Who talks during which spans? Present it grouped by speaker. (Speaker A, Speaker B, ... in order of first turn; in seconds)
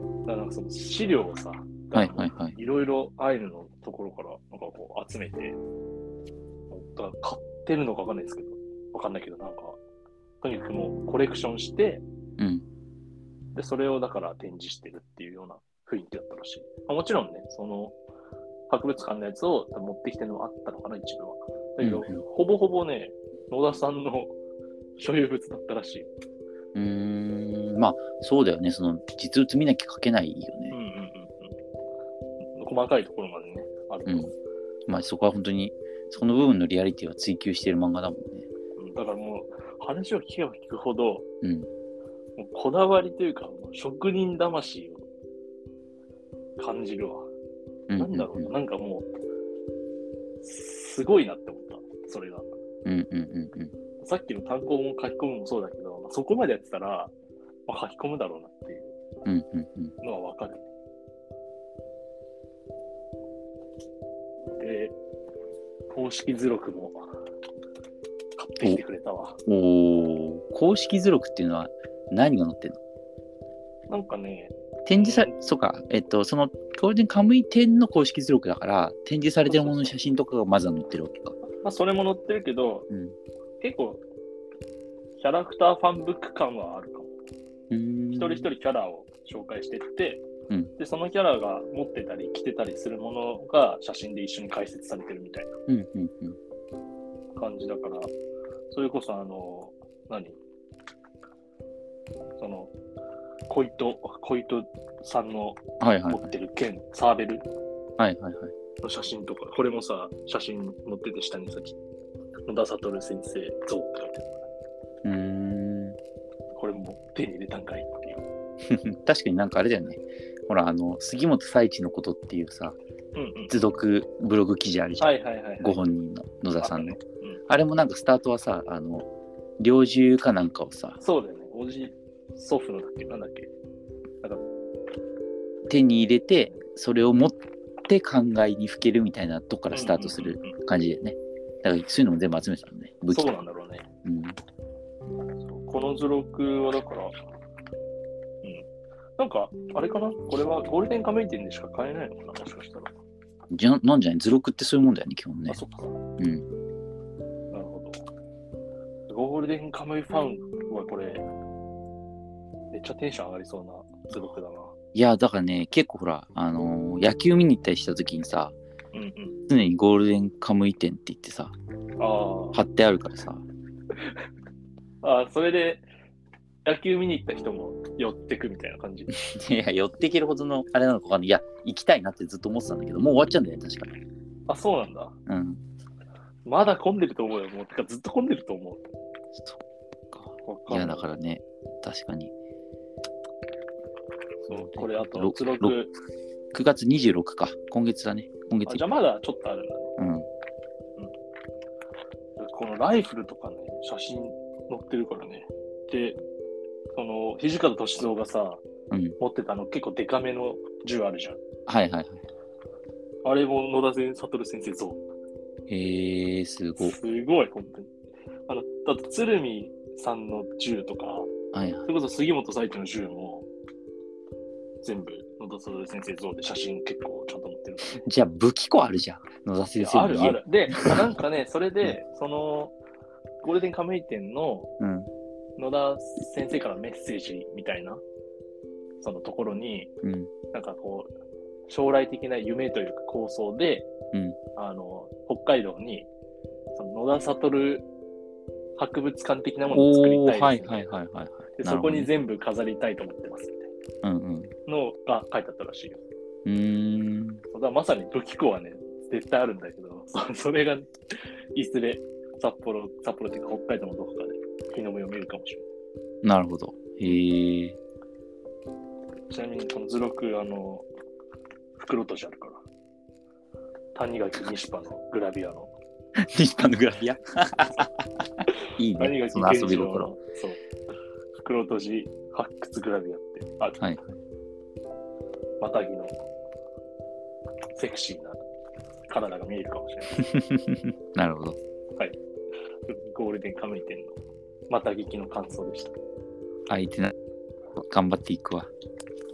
Speaker A: 0.3-5.6, 6.7-9.8, 10.4-12.0, 13.6-18.0, 18.7-24.3, 25.0-26.1, 30.7-31.6, 32.6-34.3, 38.8-41.3, 42.4-45.1, 46.6-47.3, 48.0-49.1, 50.4-52.5, 54.0-57.1, 57.7-59.0, 60.0-60.7, 64.6-65.0, 65.9-67.0, 68.4-69.4, 73.9-75.3, 79.4-80.0, 81.6-82.9, 83.6-84.0, 85.2-87.1, 88.1-90.2, 90.8-95.5, 97.4-98.1, 98.7-100.4, 102.4-102.7, 103.5-107.5, 108.8-111.8, 112.5-114.5, 116.6-118.2, 123.2-123.5, 125.0-125.8, 126.6-127.4, 131.0-133.5, 139.7-140.6, 143.1-143.9, 145.5-147.2, 149.2-152.9, 155.5-156.0, 157.5-158.0, 159.1-161.3, 162.7-164.7, 168.9-169.4, 172.0-172.6, 175.0-175.8, 176.7-179.1, 184.5-185.2, 186.5-188.8, 190.4-191.1, 194.5-195.9, 198.7-199.9, 202.4-206.2, 206.9-208.6, 209.2-211.4, 213.2-215.0, 216.8-217.9, 218.5-221.3, 221.9-223.5, 224.8-228.0, 229.8-232.7, 233.4-234.7, 235.6-238.0, 239.0-239.9, 240.5-241.1, 241.7-243.9, 244.6-246.1, 246.8-247.9, 248.8-250.8, 251.6-253.7, 254.7-256.0, 257.5-265.6, 269.3-270.9, 271.8-272.6, 273.9-275.7, 279.0-280.6, 281.4-283.8, 285.6-286.1, 287.8-288.4, 289.1-290.2, 292.9-294.2, 294.7-295.9
Speaker B: 1.9-2.6, 12.4-12.6, 21.8-22.2, 26.8-30.8, 34.1-34.3, 34.9-38.5, 41.4-41.7, 47.9-48.5, 52.9-53.7, 59.3-60.0, 69.5-72.8, 74.9-81.4, 82.9-83.2, 87.7-88.5, 95.7-96.4, 105.8-106.3, 108.0-108.5, 115.0-116.0, 118.7-122.8, 123.5-129.1, 129.6-131.0, 135.7-143.3, 144.1-144.4, 153.5-155.6, 156.2-156.5, 164.9-168.6, 169.5-171.6, 172.5-173.4, 179.1-184.0, 185.3-185.6, 190.1-192.3, 194.5-195.9, 196.5-198.8, 200.0-200.3, 208.9-209.2, 211.7-212.2, 215.7-217.0, 221.5-221.9, 227.9-231.0, 234.8-235.1, 240.0-240.3, 249.7-252.1, 254.0-254.5, 256.4-257.4, 266.2-267.8, 276.2-280.1, 283.8-284.2, 290.1-291.6, 296.7-297.1, 297.8-298.7